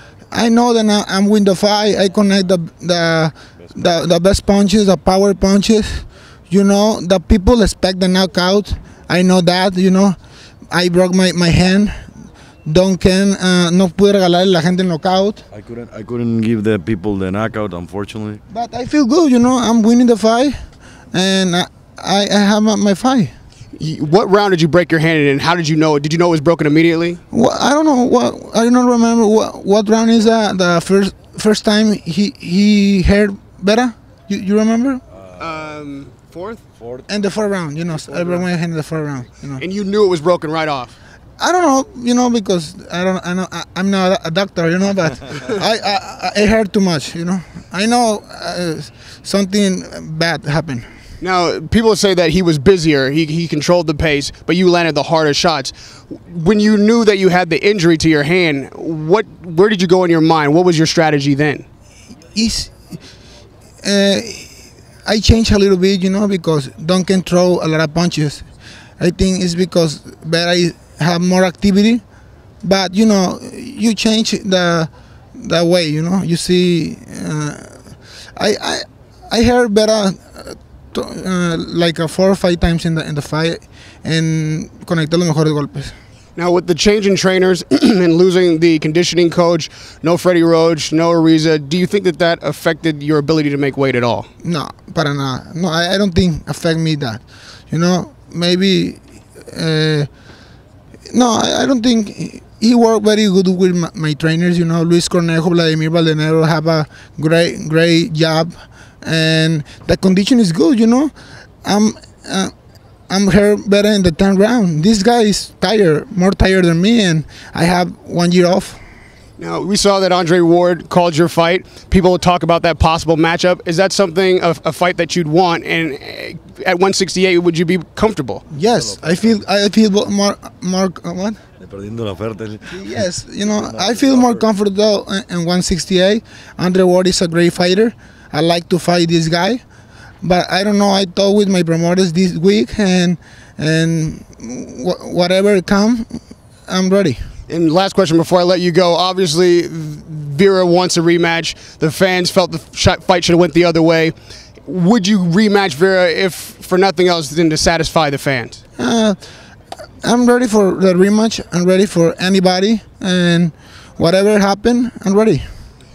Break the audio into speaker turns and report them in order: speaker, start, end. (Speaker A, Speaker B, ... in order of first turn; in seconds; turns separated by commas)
Speaker A: 0.3-10.2, Speaker A: 10.7-11.9, Speaker A: 12.6-15.4, Speaker B: 15.5-18.4, Speaker A: 18.5-20.6, Speaker A: 21.1-23.3, Speaker C: 23.8-27.2, Speaker A: 27.3-35.0, Speaker C: 35.4-36.6, Speaker B: 36.8-37.1, Speaker A: 37.1-39.6, Speaker C: 39.6-41.0, Speaker A: 41.4-50.9, Speaker C: 51.2-61.6, Speaker A: 62.3-62.7, Speaker A: 63.8-64.5, Speaker A: 65.0-68.4, Speaker A: 69.0-72.0, Speaker A: 72.6-77.8, Speaker A: 78.3-86.0, Speaker C: 86.3-94.3, Speaker A: 94.4-100.1, Speaker A: 101.1-111.1, Speaker A: 111.6-112.5, Speaker A: 113.1-118.8, Speaker C: 119.4-128.4, Speaker A: 128.5-131.4, Speaker B: 128.7-129.4, Speaker B: 131.6-134.4, Speaker A: 132.7-139.6, Speaker A: 140.2-147.2, Speaker C: 147.5-158.6, Speaker A: 158.8-159.2, Speaker A: 160.0-165.4